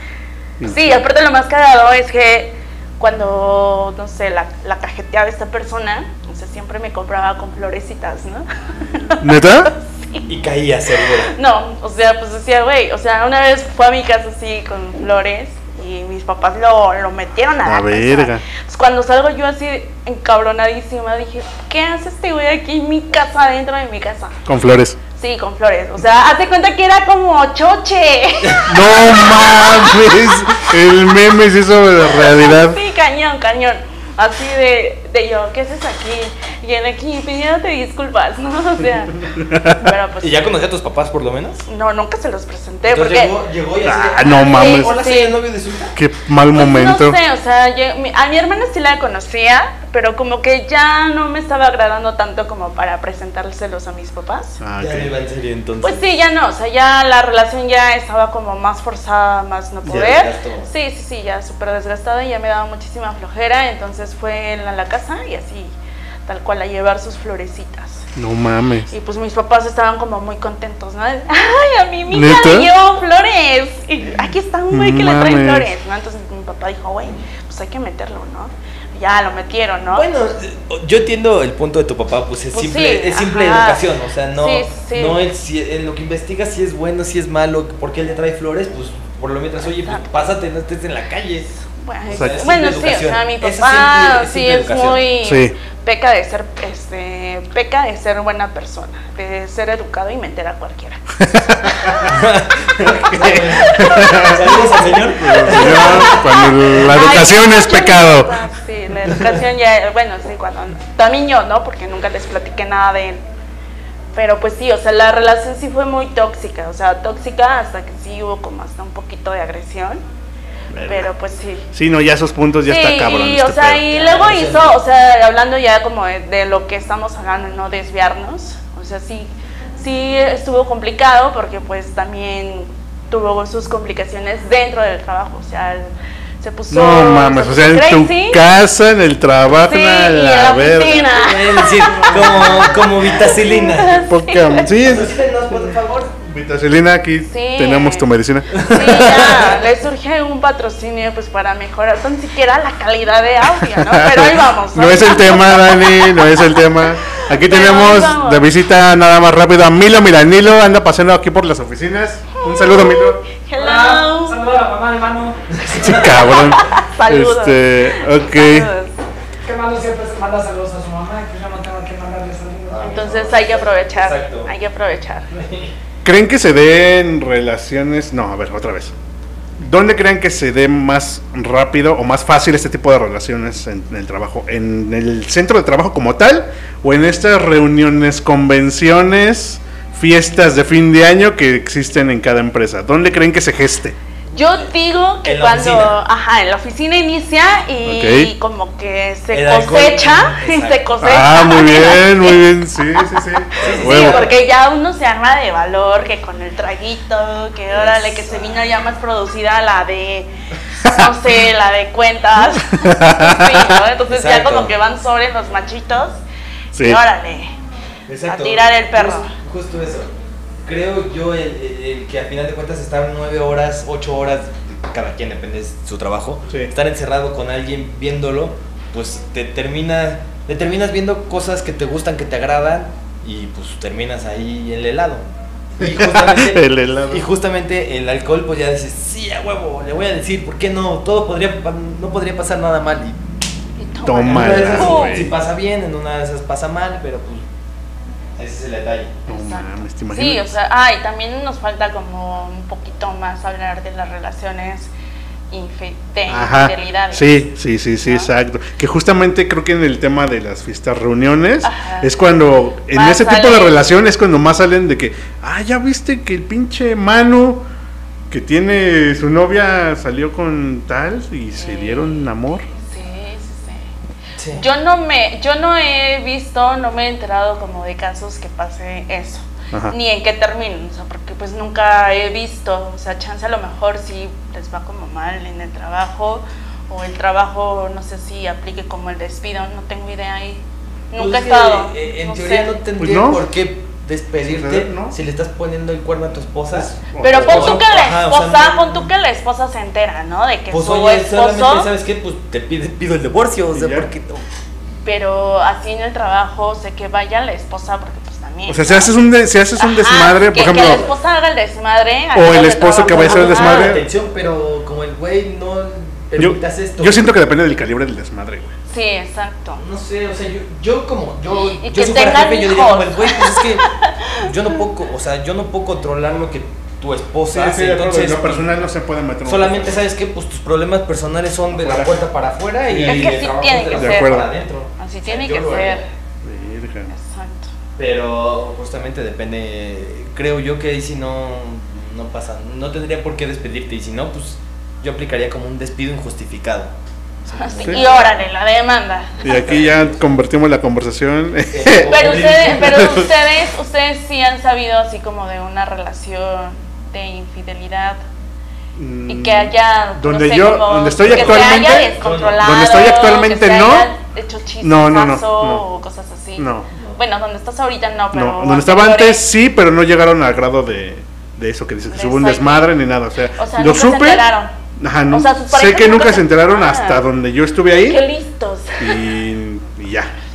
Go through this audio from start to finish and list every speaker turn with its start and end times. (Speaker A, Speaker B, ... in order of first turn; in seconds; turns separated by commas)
Speaker A: 0.6-1.0, Speaker B: 0.6-10.3, Speaker A: 9.2-9.7, Speaker C: 10.3-11.3, Speaker B: 11.2-24.4, Speaker A: 17.6-18.4, Speaker A: 24.4-25.0, Speaker B: 25.1-30.2, Speaker A: 28.7-32.8, Speaker B: 32.1-40.4, Speaker A: 39.3-39.9, Speaker C: 40.2-41.6, Speaker B: 41.6-43.3, Speaker C: 42.9-46.0, Speaker A: 43.8-44.9, Speaker B: 44.2-45.3, Speaker A: 46.0-47.2, Speaker B: 46.5-54.6, Speaker A: 54.6-55.1, Speaker C: 54.8-56.0, Speaker B: 55.8-65.7, Speaker C: 59.9-60.7, Speaker B: 66.2-68.1, Speaker A: 68.2-68.9, Speaker B: 68.9-80.0, Speaker A: 72.1-72.7, Speaker A: 74.7-75.7, Speaker C: 79.9-91.5, Speaker B: 82.5-83.8, Speaker B: 84.3-85.2, Speaker B: 89.6-90.2, Speaker B: 91.6-101.0, Speaker C: 92.1-95.0, Speaker A: 92.1-92.3, Speaker A: 95.2-95.5, Speaker A: 101.2-102.1, Speaker B: 101.6-102.2, Speaker C: 102.1-107.0, Speaker A: 102.8-104.6, Speaker B: 103.2-104.6, Speaker A: 105.2-108.3, Speaker B: 105.2-113.2, Speaker C: 109.1-109.4, Speaker B: 114.1-120.0, Speaker A: 120.7-121.1, Speaker B: 120.8-121.7, Speaker A: 121.7-123.9, Speaker B: 122.7-138.4, Speaker C: 123.9-124.8, Speaker A: 136.7-142.8, Speaker B: 139.6-144.7, Speaker C: 141.1-144.1, Speaker A: 143.9-145.2, Speaker C: 144.8-146.2, Speaker A: 146.2-149.2, Speaker B: 147.3-158.5, Speaker C: 148.5-149.6, Speaker A: 153.6-163.2, Speaker B: 162.3-164.4, Speaker D: 163.6-165.4, Speaker C: 165.5-166.6, Speaker A: 165.8-168.7, Speaker B: 166.2-168.9, Speaker D: 169.4-172.9, Speaker C: 172.7-174.5, Speaker B: 172.8-175.3, Speaker C: 175.3-175.7, Speaker A: 176.0-178.9, Speaker A: 179.6-193.9, Speaker B: 194.3-210.3, Speaker C: 195.2-195.9, Speaker A: 197.8-198.3, Speaker C: 199.3-200.9, Speaker A: 201.0-204.2, Speaker C: 203.6-204.3, Speaker C: 207.7-208.6, Speaker B: 210.8-216.2, Speaker A: 212.5-213.7, Speaker C: 214.1-214.7, Speaker A: 216.7-217.0, Speaker B: 216.8-217.5, Speaker C: 218.1-220.1, Speaker B: 218.2-219.3, Speaker C: 220.6-235.2, Speaker C: 235.8-243.2, Speaker A: 235.8-237.3, Speaker B: 243.8-245.3, Speaker A: 244.0-245.3, Speaker C: 244.3-247.4, Speaker C: 248.4-249.2, Speaker A: 249.3-250.4, Speaker B: 249.3-254.9, Speaker B: 255.5-257.4, Speaker A: 256.3-267.6, Speaker B: 258.0-258.3, Speaker B: 261.6-262.2, Speaker B: 262.9-263.8, Speaker A: 268.3-272.6, Speaker B: 271.6-273.9, Speaker C: 274.4-274.6, Speaker B: 274.5-292.8, Speaker C: 291.2-299.0, Speaker A: 293.0-293.4, Speaker A: 294.4-295.1, Speaker A: 296.7-297.8, Speaker B: 297.2-301.9, Speaker C: 300.7-304.4, Speaker A: 303.7-304.1, Speaker B: 305.0-309.1, Speaker A: 308.7-311.0, Speaker B: 309.8-313.9, Speaker A: 312.3-314.0, Speaker C: 313.1-317.2, Speaker A: 316.4-318.7, Speaker B: 318.9-319.8, Speaker C: 319.8-328.7, Speaker B: 321.8-324.5, Speaker A: 327.5-330.0, Speaker C: 329.4-336.0, Speaker A: 331.7-332.2, Speaker A: 332.9-333.4, Speaker B: 333.0-334.5, Speaker A: 333.9-334.5, Speaker B: 335.0-336.0, Speaker A: 336.4-337.1, Speaker B: 337.1-337.7, Speaker C: 338.0-346.9, Speaker C: 347.4-348.5, Speaker B: 347.5-349.4, Speaker C: 349.4-350.4, Speaker A: 349.4-353.2, Speaker C: 351.7-353.2, Speaker B: 352.1-358.2, Speaker A: 358.9-364.1, Speaker B: 359.3-369.4, Speaker C: 361.2-362.6, Speaker A: 364.8-365.8, Speaker A: 366.6-366.9, Speaker A: 368.3-378.2, Speaker B: 372.1-372.9, Speaker B: 373.6-374.7, Speaker B: 375.3-377.2, Speaker B: 377.9-379.2, Speaker A: 379.0-380.3